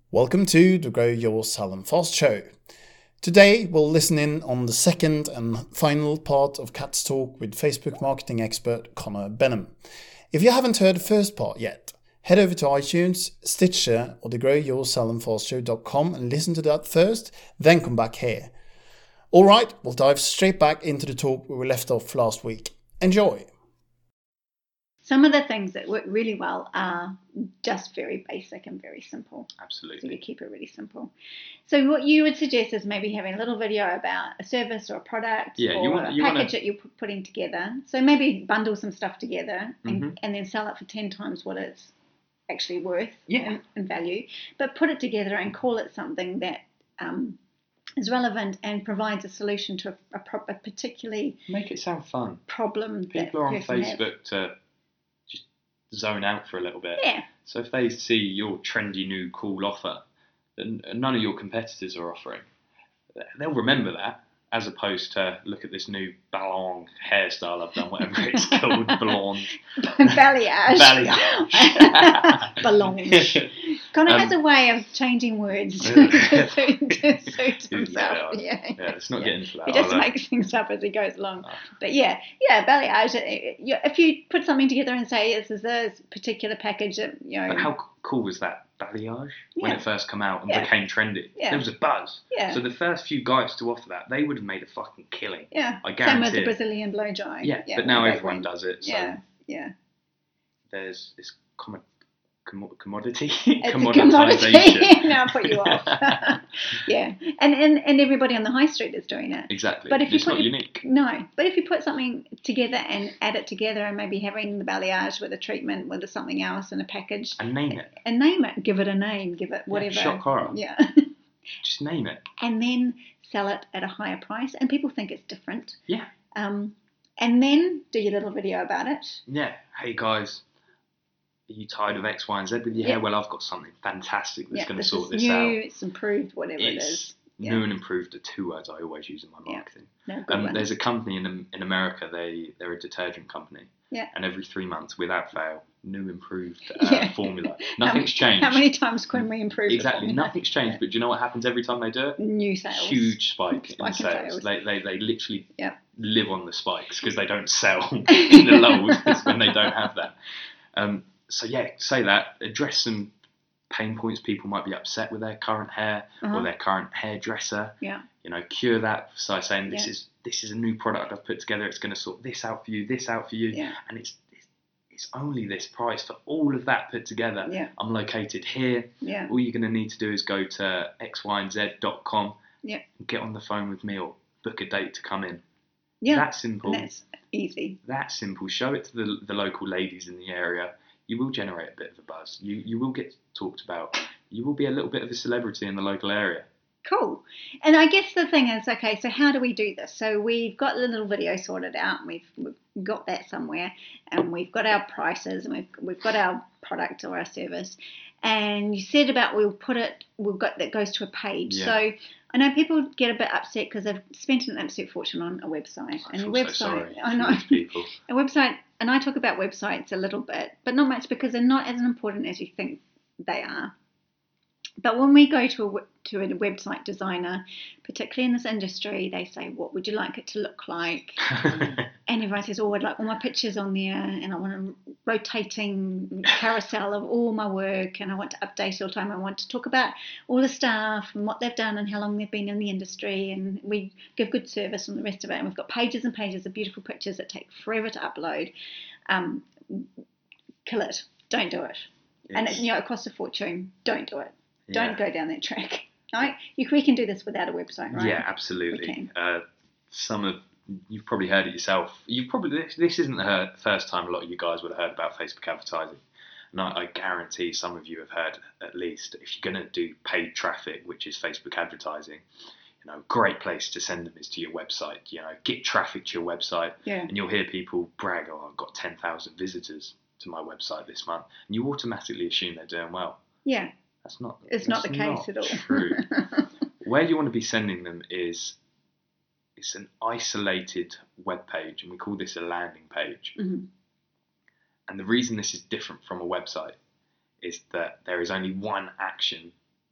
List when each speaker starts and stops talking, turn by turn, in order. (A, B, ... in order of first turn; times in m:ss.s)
0:00.1-0:02.5 A
0:03.2-0:09.7 A
0:10.3-0:18.5 A
0:19.3-0:23.5 A
0:25.0-0:31.1 B
0:29.6-0:30.2 C
0:31.6-0:41.9 B
0:35.6-0:36.5 C
0:39.8-0:40.2 C
0:42.5-0:47.4 B
0:43.3-0:43.6 C
0:48.0-0:51.4 B
0:51.5-0:52.4 C
0:52.5-0:54.0 B
0:53.1-0:54.5 C
0:55.3-1:00.0 C
0:57.0-0:57.3 B
1:00.6-1:02.4 C
1:03.1-1:14.3 C
1:08.1-1:09.2 B
1:09.8-1:27.7 B
1:15.8-1:20.1 C
1:27.5-1:36.6 C
1:29.6-1:29.8 B
1:31.4-1:31.6 B
1:32.3-1:32.6 B
1:35.5-1:39.7 B
1:37.4-1:39.2 C
1:40.7-1:41.8 C
1:42.4-1:46.4 C
1:43.6-2:01.1 B
1:49.5-1:50.8 C
1:57.4-1:57.9 C
1:59.7-2:00.6 C
2:01.6-2:02.2 C
2:02.4-2:05.8 B
2:06.3-2:09.2 B
2:09.3-2:10.4 C
2:11.5-2:15.6 C
2:14.5-2:17.6 B
2:16.6-2:28.6 C
2:19.4-2:20.8 B
2:26.8-2:30.8 B
2:29.7-2:32.2 C
2:32.2-2:34.5 B
2:32.7-2:40.1 C
2:38.1-2:39.5 B
2:40.7-2:43.1 C
2:43.7-3:02.4 C
2:46.2-2:46.5 B
2:47.8-2:48.0 B
2:53.5-2:53.8 B
2:57.4-2:57.7 B
2:59.0-2:59.3 B
3:03.0-3:05.4 C
3:06.0-3:07.8 B
3:06.1-3:06.9 C
3:07.8-3:16.5 C
3:16.8-3:43.7 B
3:31.5-3:31.8 C
3:36.0-3:37.9 C
3:44.8-4:08.5 B
3:51.3-3:51.8 C
4:09.1-4:09.9 B
4:10.6-4:19.1 B
4:12.3-4:12.6 C
4:14.7-4:15.0 C
4:17.9-4:32.2 C
4:32.8-4:43.2 C
4:36.8-4:37.1 B
4:43.4-4:43.7 B
4:44.0-4:46.1 C
4:44.5-4:46.5 B
4:46.8-4:48.6 C
4:49.6-4:53.4 C
4:53.4-4:53.7 B
4:54.9-4:56.8 C
4:57.4-4:59.5 C